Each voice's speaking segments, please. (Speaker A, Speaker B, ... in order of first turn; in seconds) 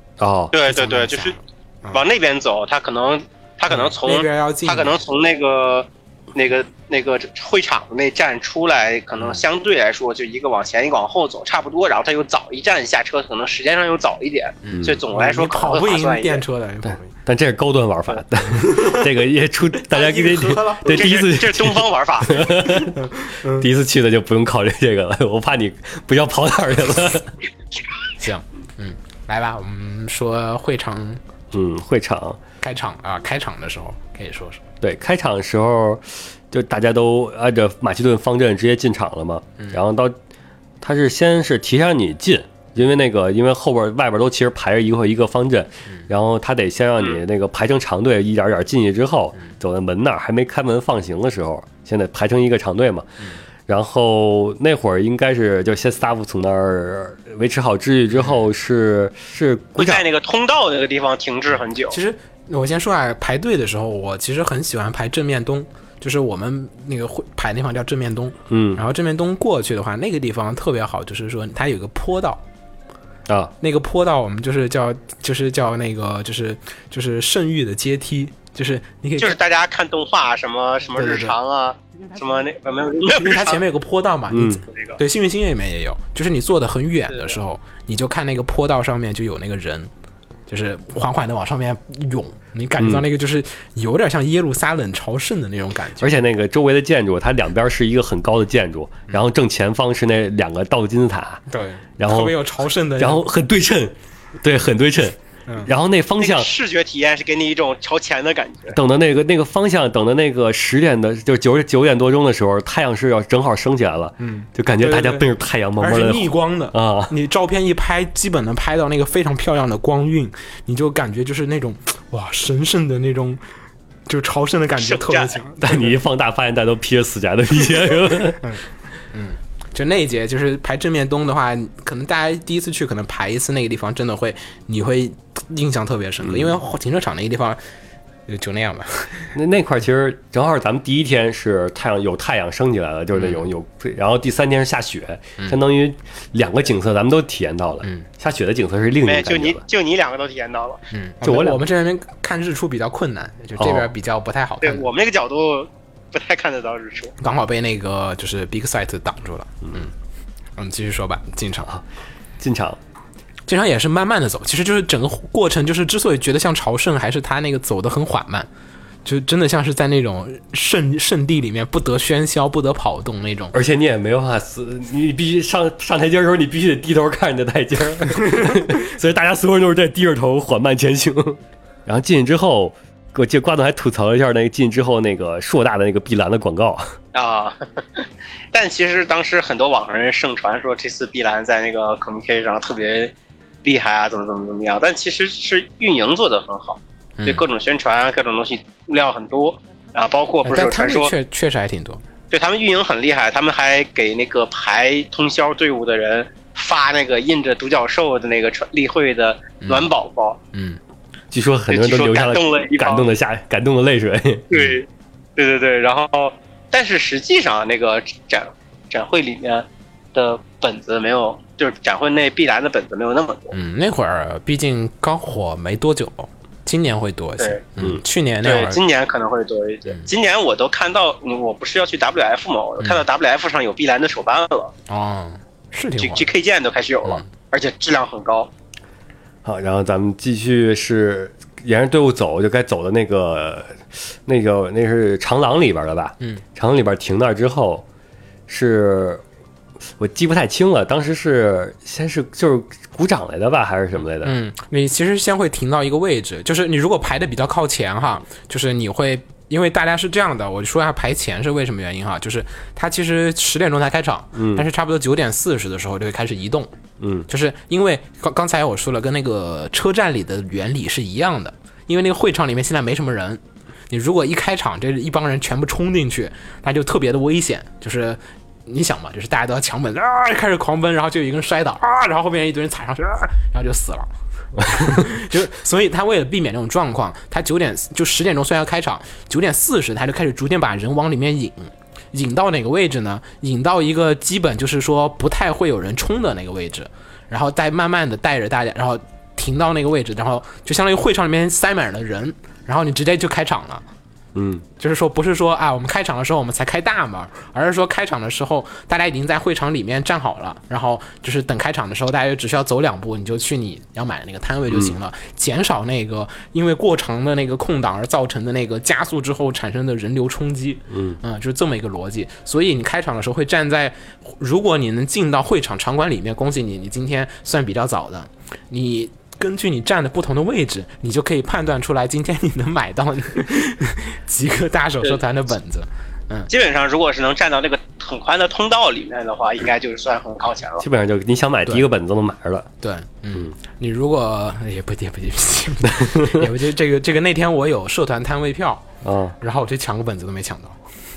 Speaker A: 0.2-0.5, 14.7-15.0, 17.1-27.3, 31.5-32.4, 34.8-40.1, 40.8-53.0, 53.7-60.0, 68.5-68.8, 73.3-73.5, 84.3-84.6, 92.8-93.0, 96.0-101.4, 102.0-102.3, 103.0-106.5, 108.7-117.1, 125.6-128.4, 136.2-136.6, 139.3-149.6, 151.2-151.6, 153.6-153.9, 162.4-162.8, 173.5-186.9, 211.3-214.5, 239.4-247.8, 248.5-249.2, 250.0-254.3, 264.3-264.6, 267.0-267.2, 304.3-304.6, 320.9-321.2, 340.8-342.7, 346.0-346.4, 349.0-349.4
Speaker B: 0.5-1.4, 1.9-16.4, 20.9-22.4, 59.8-62.0, 79.2-83.6, 106.2-108.7, 124.8-125.3, 149.0-150.8, 154.6-157.1, 187.1-201.1, 202.3-210.4, 211.7-213.1, 214.5-214.8, 215.4-223.5, 228.4-234.7, 236.0-238.5, 336.5-340.8
Speaker C: 0.6-2.0, 3.7-5.0, 14.6-17.1, 18.5-19.0, 19.9-21.1, 22.9-23.6, 28.2-31.2, 32.6-34.6, 61.9-72.4, 73.6-79.4, 81.0-81.3, 83.1-89.9, 90.5-96.1, 101.5-103.2, 114.2-123.4, 124.1-126.0, 128.4-137.6, 138.3-139.3, 143.1-143.4, 150.9-154.9, 157.2-159.9, 160.6-161.7, 163.5-168.5, 169.0-173.5, 197.2-197.4, 200.4-202.0, 209.6-209.9, 210.5-210.8, 223.5-228.8, 234.9-236.3, 254.2-266.7, 267.3-303.8, 304.8-336.5, 342.8-348.9, 349.4-350.8